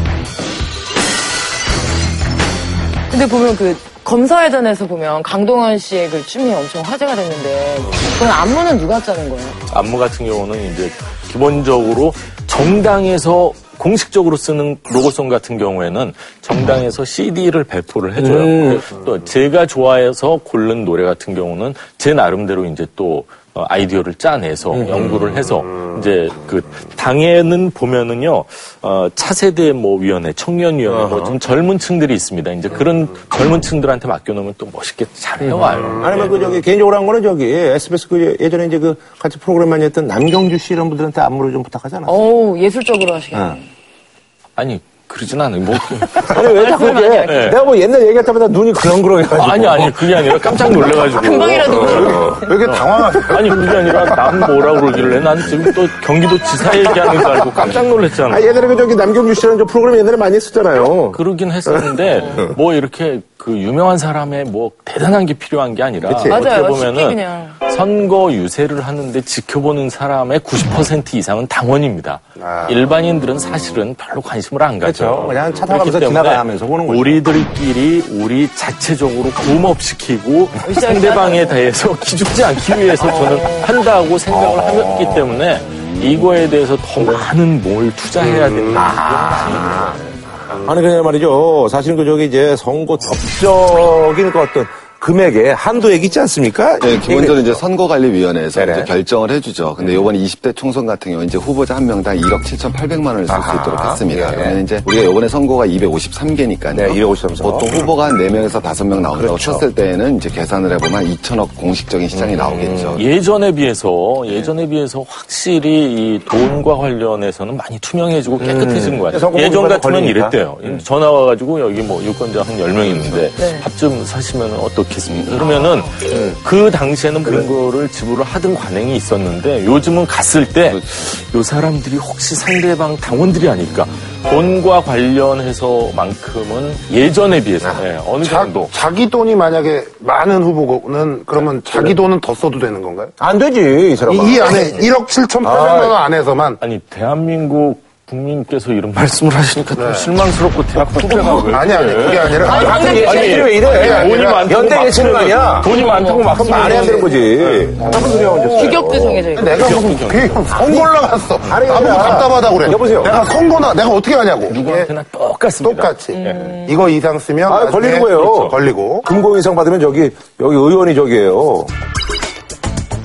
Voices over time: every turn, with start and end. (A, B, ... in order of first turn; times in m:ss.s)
0:03.1-0:09.6 A
0:09.7-0:36.4 B
0:18.2-0:18.9 C
0:24.7-0:25.5 C
0:30.9-0:31.4 C
0:35.8-0:36.5 D
0:35.9-0:42.2 C
0:42.0-0:43.6 A
0:43.3-0:43.6 C
0:44.6-0:46.7 B
0:46.2-0:50.9 C
0:46.5-0:47.7 A
0:47.2-0:47.6 B
0:49.3-0:58.5 B
0:50.8-0:52.7 A
0:51.7-0:52.4 C
0:52.3-0:54.7 D
0:56.6-0:57.7 C
0:58.2-1:02.6 C
1:01.1-1:30.0 B
1:06.0-1:06.4 C
1:06.3-1:07.6 A
1:12.4-1:12.8 D
1:14.8-1:17.2 C
1:20.6-1:21.6 A
1:23.0-1:23.8 A
1:24.3-1:25.4 C
1:28.2-1:37.6 C
1:28.4-1:28.7 D
1:36.8-1:53.1 E
1:38.5-1:38.9 C
1:39.8-1:40.1 C
1:43.3-1:44.7 C
1:46.7-1:47.9 C
1:49.2-1:49.7 C
1:52.1-1:53.0 C
1:52.9-2:18.7 B
1:58.4-2:00.8 C
2:02.9-2:03.3 E
2:03.4-2:03.7 A
2:05.1-2:05.4 E
2:05.4-2:05.9 A
2:06.1-2:06.4 C
2:10.6-2:11.1 E
2:17.6-2:17.9 C
2:18.2-2:23.1 D
2:23.2-2:24.7 C
2:24.0-2:26.6 D
2:24.5-2:24.9 B
2:25.4-2:26.0 C
2:26.6-2:37.8 B
2:29.8-2:30.1 D
2:30.8-2:31.5 C
2:31.4-2:33.0 D
2:32.4-2:33.5 A
2:32.6-2:39.4 C
2:33.5-2:34.4 D
2:35.7-2:37.4 A
2:36.7-2:37.1 D
2:37.7-2:44.9 D
2:38.2-2:39.9 A
2:39.4-2:40.8 B
2:40.5-2:43.3 C
2:44.4-2:46.6 B
2:45.6-2:49.1 D
2:46.1-2:46.8 A
2:47.5-2:48.5 C
2:48.2-2:48.6 B
2:49.0-2:51.7 C